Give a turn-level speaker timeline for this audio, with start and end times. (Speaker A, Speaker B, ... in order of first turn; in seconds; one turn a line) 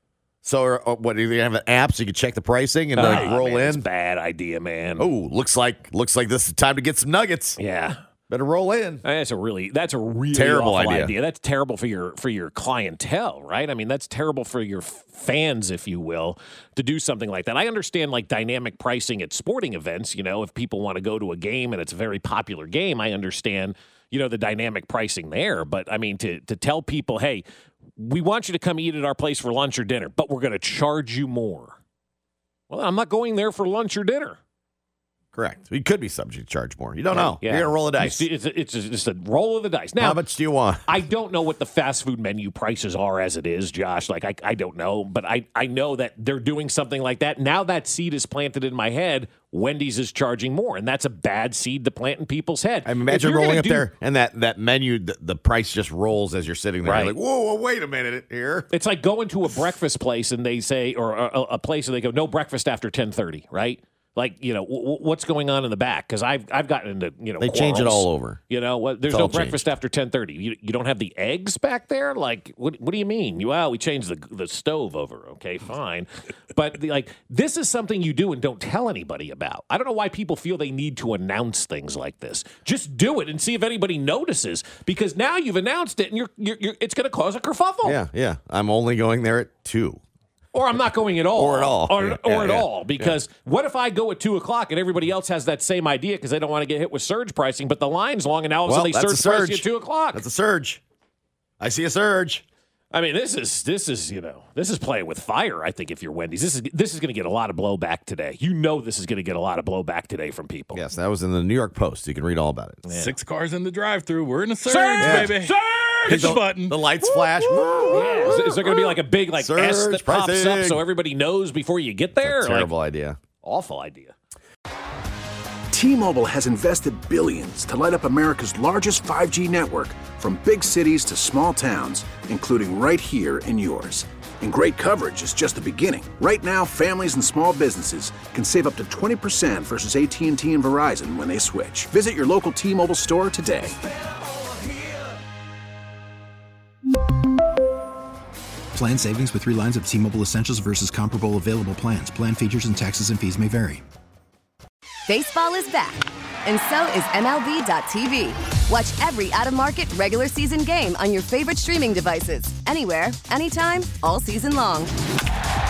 Speaker A: 0.4-3.9
Speaker B: 2.9-5.1
Speaker A: 5.0-7.6
Speaker B: 7.6-8.0
Speaker A: 8.3-9.0
Speaker B: 9.0-27.4
Speaker A: 10.3-11.1
Speaker B: 28.0-31.8
Speaker B: 32.7-34.4
Speaker A: 35.3-38.2
Speaker B: 37.1-40.2
Speaker A: 40.0-41.0
Speaker B: 40.9-53.9
Speaker A: 52.8-58.7
Speaker B: 56.8-57.1
Speaker B: 58.7-88.0
Speaker A: 67.4-68.4
Speaker A: 69.1-69.6
Speaker A: 87.8-90.0
Speaker B: 90.5-100.2
Speaker A: 91.3-93.2
Speaker A: 98.7-100.8
Speaker A: 101.6-102.4
Speaker B: 102.9-110.8
Speaker A: 110.7-112.8
Speaker B: 112.8-113.1
Speaker C: 113.0-116.7
Speaker B: 114.6-116.4
Speaker A: 115.0-115.4
Speaker A: 116.0-120.8
Speaker B: 117.9-122.7
Speaker A: 122.2-123.2
Speaker B: 123.4-124.1
Speaker D: 125.7-143.8
Speaker E: 148.7-153.8
Speaker F: 155.1-164.9